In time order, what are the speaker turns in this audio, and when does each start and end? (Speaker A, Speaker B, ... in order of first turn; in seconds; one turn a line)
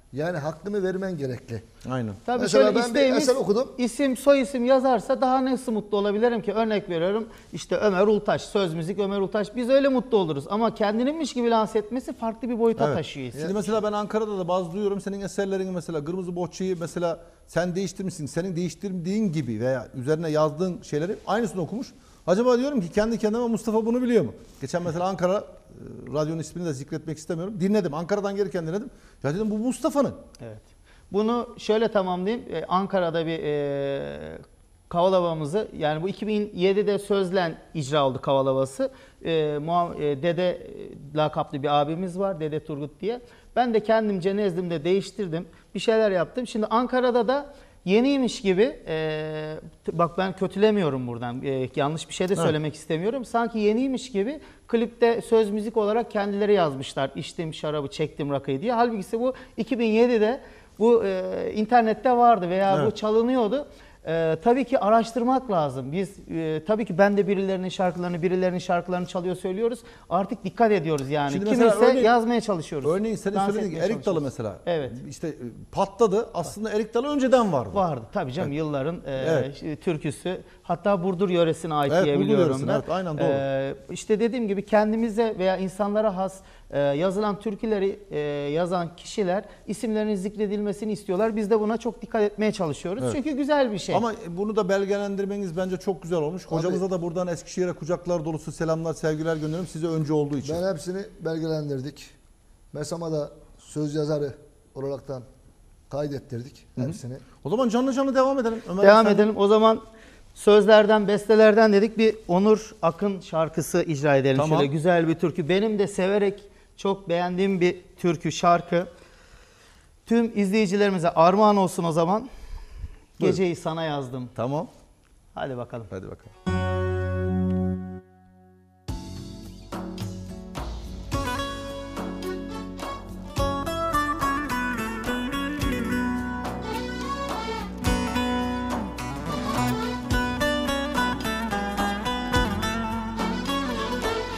Speaker A: 0.1-1.6
Speaker B: 1.8-2.2
Speaker C: 2.3-13.6
Speaker A: 2.4-3.7
Speaker B: 12.8-30.2
Speaker C: 30.4-75.0
Speaker B: 71.3-72.1
Speaker B: 72.8-77.8
Speaker C: 77.7-94.0
Speaker B: 79.2-79.5
Speaker B: 81.9-83.4
Speaker B: 93.9-100.6
Speaker A: 96.5-96.8
Speaker A: 100.4-102.1
Speaker A: 102.7-105.2
Speaker A: 105.9-107.2
Speaker B: 106.8-109.3
Speaker C: 108.8-109.8
Speaker C: 110.3-118.9
Speaker B: 114.3-114.7
Speaker C: 120.1-122.3
Speaker C: 123.2-124.3
Speaker B: 124.3-124.7
Speaker C: 125.3-125.9
Speaker B: 125.9-126.3